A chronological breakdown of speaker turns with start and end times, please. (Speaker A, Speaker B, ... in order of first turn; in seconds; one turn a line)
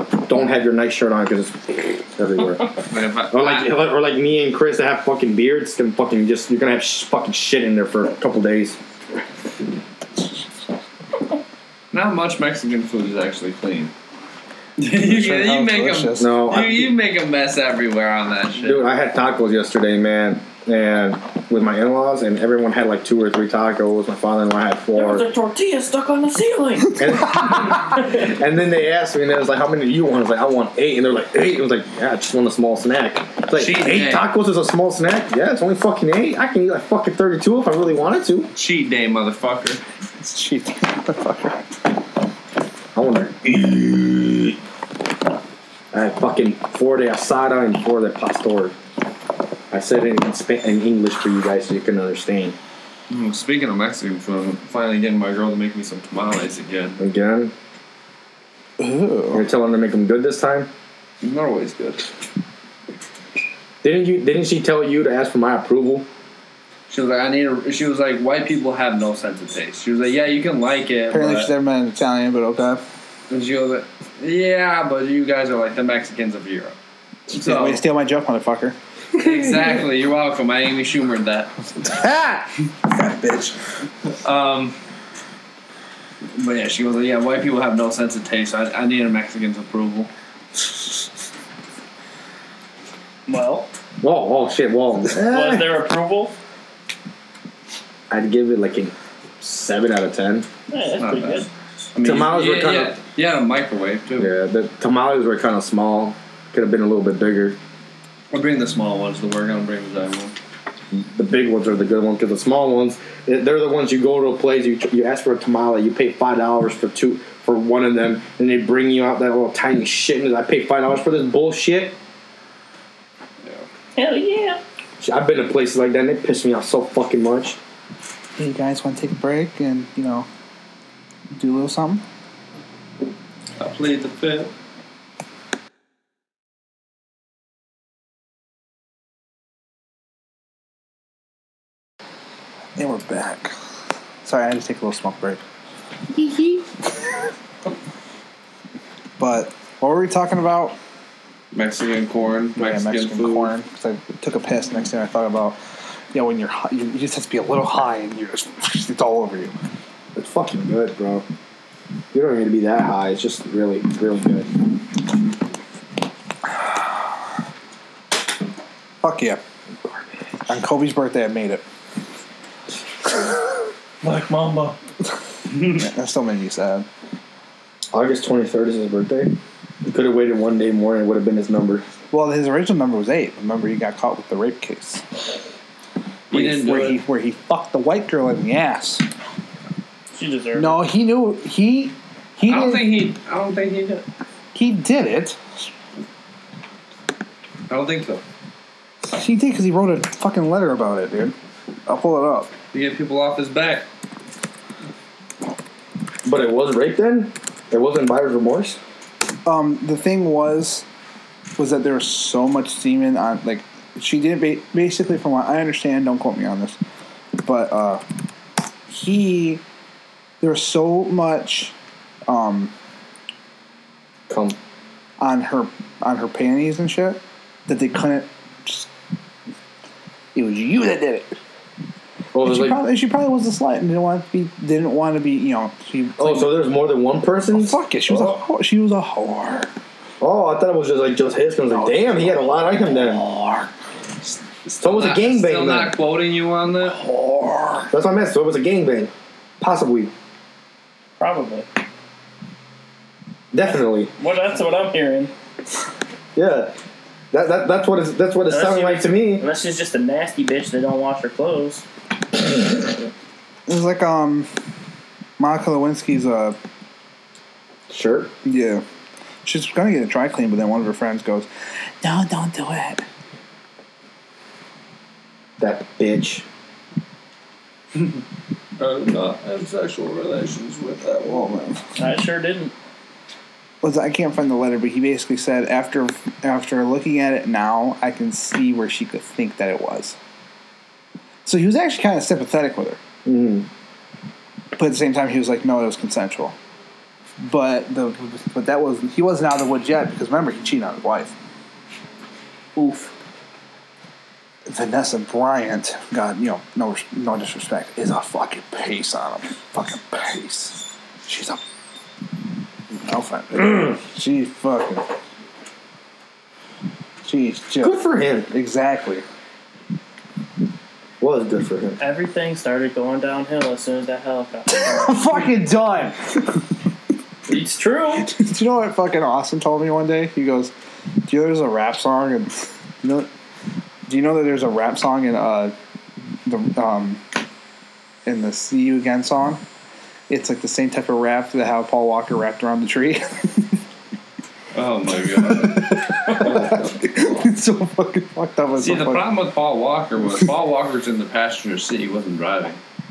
Speaker A: 0.2-2.8
Speaker B: 2.8-3.7
Speaker A: 3.3-8.8
Speaker B: 11.9-13.9
Speaker B: 14.8-18.8
Speaker C: 15.0-16.4
Speaker A: 16.2-16.9
Speaker A: 18.6-25.2
Speaker D: 24.9-27.0
Speaker A: 27.0-38.5
Speaker B: 33.5-34.3
Speaker B: 38.5-39.8
Speaker C: 40.2-41.6
Speaker A: 42.9-44.5
Speaker A: 45.9-48.7
Speaker A: 49.7-52.5
Speaker B: 53.1-57.0
Speaker A: 57.0-57.5
Speaker C: 58.8-59.4
Speaker A: 59.3-60.7
Speaker B: 61.2-62.1
Speaker A: 63.8-66.0
Speaker B: 66.9-71.5
Speaker C: 71.1-72.8
Speaker B: 73.3-76.7
Speaker B: 77.3-77.8
Speaker C: 77.3-79.4
Speaker B: 79.2-81.5
Speaker C: 81.8-83.6
Speaker B: 84.2-84.8
Speaker B: 86.4-90.1
Speaker D: 93.3-93.7
Speaker A: 94.0-95.7
Speaker D: 95.2-96.3
Speaker A: 98.1-100.5
Speaker D: 100.7-101.5
Speaker B: 101.0-104.3
Speaker A: 102.0-103.0
Speaker A: 104.2-107.6
Speaker B: 108.3-110.3
Speaker A: 110.9-121.9
Speaker D: 124.0-124.6
Speaker A: 125.0-127.6
Speaker C: 128.4-130.3
Speaker C: 131.3-132.0
Speaker B: 133.6-134.5
Speaker C: 142.8-143.5
Speaker C: 144.2-145.4
Speaker C: 146.1-146.9
Speaker C: 149.2-150.8
Speaker B: 151.5-153.5
Speaker C: 152.6-155.6
Speaker C: 156.1-159.5
Speaker A: 160.1-161.2
Speaker A: 162.1-164.5
Speaker C: 169.0-169.4
Speaker C: 170.5-171.6
Speaker D: 174.0-174.8
Speaker C: 175.7-176.8
Speaker A: 177.9-181.8
Speaker C: 182.1-185.0
Speaker B: 186.3-187.0
Speaker C: 186.3-189.0
Speaker D: 190.1-190.8
Speaker C: 190.5-192.9
Speaker B: 192.4-194.0
Speaker C: 194.5-195.6
Speaker B: 197.7-198.2
Speaker C: 199.1-201.3
Speaker C: 201.9-202.5
Speaker B: 202.7-203.8
Speaker A: 206.2-208.8
Speaker C: 209.4-210.8
Speaker C: 211.6-216.8
Speaker C: 217.4-218.0
Speaker C: 218.9-219.6
Speaker C: 220.4-221.7
Speaker C: 222.3-222.7
Speaker A: 224.3-224.6
Speaker C: 225.2-228.9
Speaker C: 230.3-231.3
Speaker A: 232.3-232.8
Speaker C: 232.4-236.6
Speaker A: 236.2-238.4
Speaker C: 237.5-239.7
Speaker A: 240.2-243.2
Speaker C: 241.7-243.7
Speaker B: 244.7-247.0
Speaker A: 244.8-245.9
Speaker C: 246.8-247.9
Speaker A: 247.9-250.1
Speaker D: 251.2-251.7
Speaker A: 253.5-254.1
Speaker D: 254.2-255.3
Speaker A: 256.4-256.7
Speaker A: 257.3-259.4
Speaker D: 258.5-261.8
Speaker C: 263.7-264.5
Speaker C: 265.4-266.6
Speaker A: 267.9-268.3
Speaker C: 268.4-268.8
Speaker C: 269.4-271.5
Speaker C: 272.0-273.0
Speaker A: 275.6-276.4
Speaker B: 278.8-281.6
Speaker C: 281.2-281.8
Speaker D: 282.0-282.7
Speaker C: 283.8-290.2
Speaker C: 291.4-293.0
Speaker A: 293.2-293.7
Speaker C: 294.8-296.5
Speaker C: 297.4-301.3
Speaker D: 302.8-303.1
Speaker C: 304.7-311.6
Speaker C: 313.0-315.0
Speaker C: 317.2-319.2
Speaker A: 317.8-318.5
Speaker A: 321.2-322.0
Speaker D: 322.0-325.5
Speaker C: 324.7-326.4
Speaker D: 327.5-328.3
Speaker C: 328.2-330.7
Speaker C: 331.2-333.3
Speaker C: 334.1-335.7
Speaker C: 336.4-337.2
Speaker C: 338.2-339.6
Speaker C: 340.3-343.8
Speaker B: 344.7-346.3
Speaker C: 345.5-349.3
Speaker B: 348.8-352.8